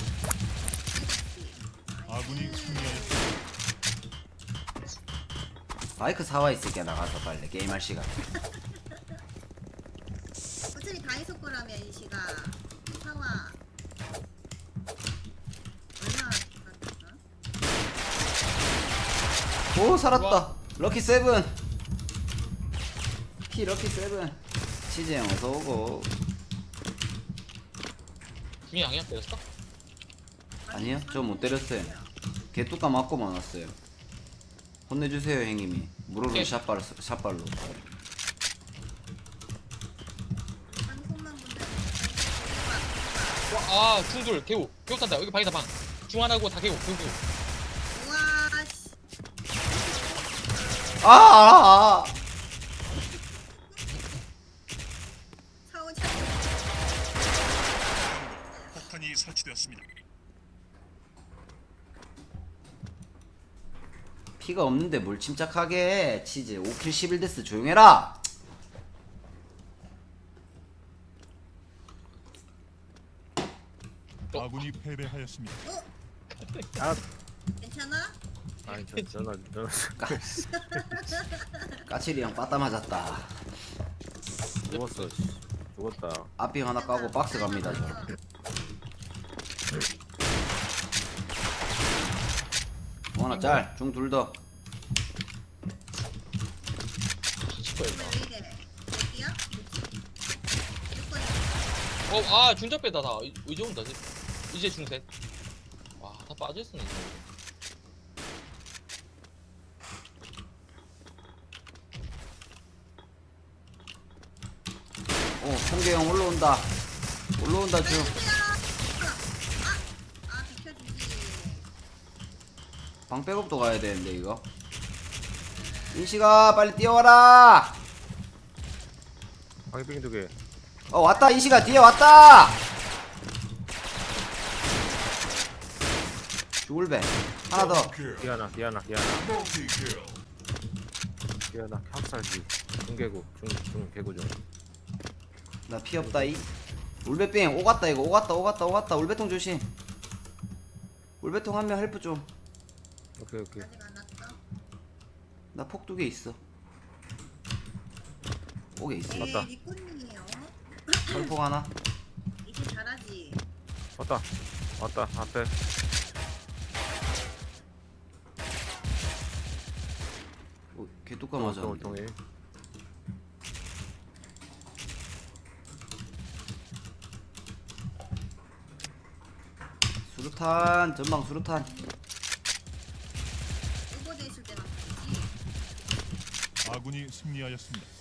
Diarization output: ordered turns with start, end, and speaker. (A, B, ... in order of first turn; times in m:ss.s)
0:00.9-0:03.4 A
0:02.1-0:03.4 B
0:06.0-0:08.2 C
0:08.5-0:09.0 A
0:10.7-0:13.6 A
0:16.0-0:17.2 A
0:19.7-0:21.5 C
0:20.1-0:20.5 D
0:23.5-0:26.1 C
0:28.7-0:29.4 D
0:30.7-0:32.1 A
0:30.7-0:32.0 C
0:32.5-0:33.8 C
0:34.9-0:37.6 C
0:36.3-0:36.6 D
0:40.7-0:43.5 A
0:43.5-0:47.2 D
0:47.9-0:49.0 A
0:49.6-0:51.4 A
0:51.0-0:52.1 C
0:53.1-0:54.2 A
0:55.6-0:57.0 A
0:57.8-0:59.9 B
0:58.0-0:58.8 A
1:04.4-1:08.2 C
1:14.3-1:14.7 D
1:14.3-1:15.6 B
1:16.4-1:16.9 D
1:16.8-1:17.0 E
1:17.6-1:18.2 A
1:18.7-1:19.2 D
1:18.7-1:20.8 E
1:20.0-1:20.4 C
1:20.4-1:21.8 A
1:21.9-1:23.5 C
1:24.7-1:25.1 D
1:24.7-1:26.3 E
1:26.4-1:28.1 C
1:26.7-1:28.2 A
1:33.2-1:34.4 C
1:33.3-1:33.6 D
1:37.4-1:38.2 D
1:37.8-1:39.9 A
1:40.9-1:42.0 A
1:42.1-1:45.1 D
1:46.0-1:47.2 D
1:55.4-1:56.7 C
1:57.4-1:58.2 C
1:57.8-2:01.7 A
2:03.1-2:04.4 C
2:05.4-2:06.3 A
2:05.9-2:07.8 C
2:09.7-2:10.3 E
2:10.9-2:12.6 C
2:16.6-2:18.0 C
2:18.1-2:19.4 E
2:21.5-2:24.4 E
2:25.7-2:26.5 C
2:26.0-2:26.4 E
2:27.0-2:29.7 C
2:31.2-2:32.3 C
2:33.2-2:33.7 E
2:33.6-2:34.4 A
2:35.5-2:36.4 C
2:38.8-2:39.4 C
2:39.1-2:41.3 A
2:39.2-2:39.5 E
2:41.1-2:41.8 C
2:42.4-2:43.4 A
2:44.0-2:44.3 E
2:44.8-2:45.5 E
2:50.7-2:52.0 C
2:51.4-2:52.2 E
3:00.1-3:01.7 C
3:01.7-3:02.0 A
3:03.9-3:05.4 A
3:06.6-3:07.9 B